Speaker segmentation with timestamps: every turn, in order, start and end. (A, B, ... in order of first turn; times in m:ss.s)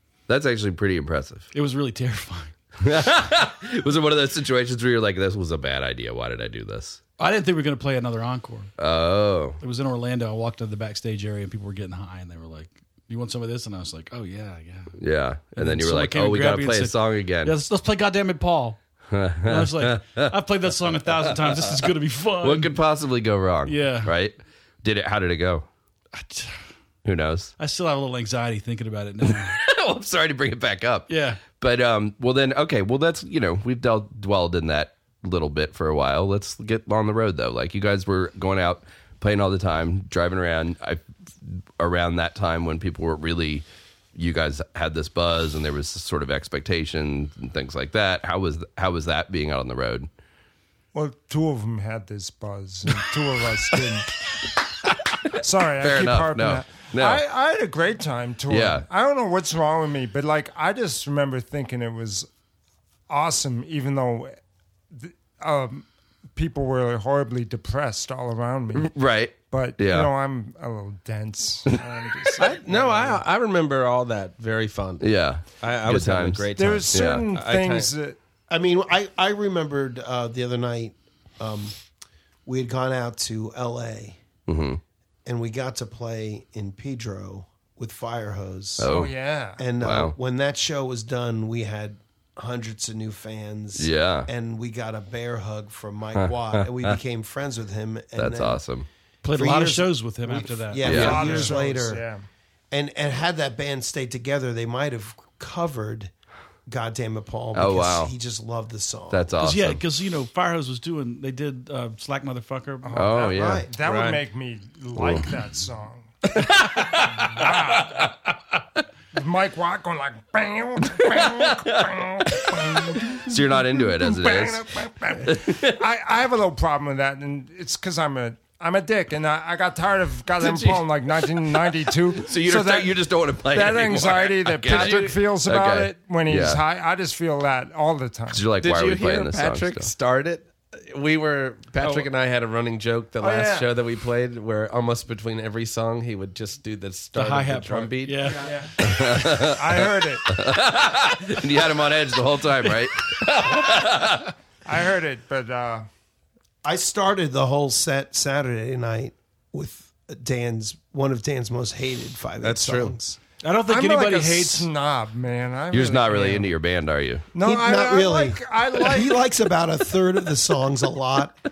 0:00.3-0:01.5 A
0:01.5-0:02.5 B
0:02.8-0:07.0 A
0:07.2-0:08.7 B
0:08.8-0:09.6 A
0:09.6-0:15.0 B
0:15.0-0:17.6 A
0:15.6-0:18.8 B
0:19.1-0:20.3 A
0:19.4-0:22.7 B
0:21.5-0:21.9 A
0:22.4-0:25.7 A
0:23.7-0:24.1 B
0:26.1-0:26.6 B
0:27.0-0:27.5 A
0:27.6-0:29.6 B
0:29.5-0:50.1 A
0:31.1-0:31.4 B
0:50.9-0:54.1 C
0:55.4-1:02.3 C
0:55.8-0:57.2 A
0:58.5-0:58.9 A
1:03.1-1:04.4 C
1:04.9-1:13.2 C
1:08.7-1:10.1 A
1:12.4-1:17.9 D
1:15.0-1:17.3 A
1:16.6-1:18.2 C
1:18.5-1:21.7 E
1:22.5-1:24.2 E
1:24.5-1:24.8 A
1:25.2-1:28.9 E
1:28.8-1:29.1 A
1:28.8-1:29.6 C
1:29.6-1:38.6 E
1:29.8-1:30.2 A
1:33.8-1:34.3 A
1:36.2-1:37.0 A
1:38.2-1:38.9 A
1:39.2-1:41.5 B
1:39.3-1:42.0 E
1:40.8-1:42.2 C
1:40.8-1:41.4 A
1:42.7-1:46.1 E
1:46.7-1:49.3 E
1:47.5-1:48.1 A
1:49.1-1:49.8 A
1:49.4-1:53.0 B
1:52.8-1:58.2 C
1:53.0-1:53.7 A
1:53.1-1:53.7 E
1:53.8-1:54.2 D
1:55.0-1:55.3 A
1:56.4-1:57.2 A
1:59.1-2:18.5 C
2:01.2-2:04.6 A
2:05.2-2:05.8 A
2:12.2-2:16.6 A
2:14.7-2:15.2 D
2:18.3-2:19.9 A
2:18.6-2:28.5 D
2:23.2-2:23.7 C
2:27.1-2:28.6 B
2:28.3-2:30.3 C
2:28.8-2:34.3 A
2:34.6-2:35.9 C
2:36.6-2:43.2 E
2:42.4-2:43.0 D
2:43.4-2:44.7 B
2:43.7-2:46.5 C
2:45.7-2:47.3 A
2:47.3-2:49.2 C
2:47.4-2:51.4 E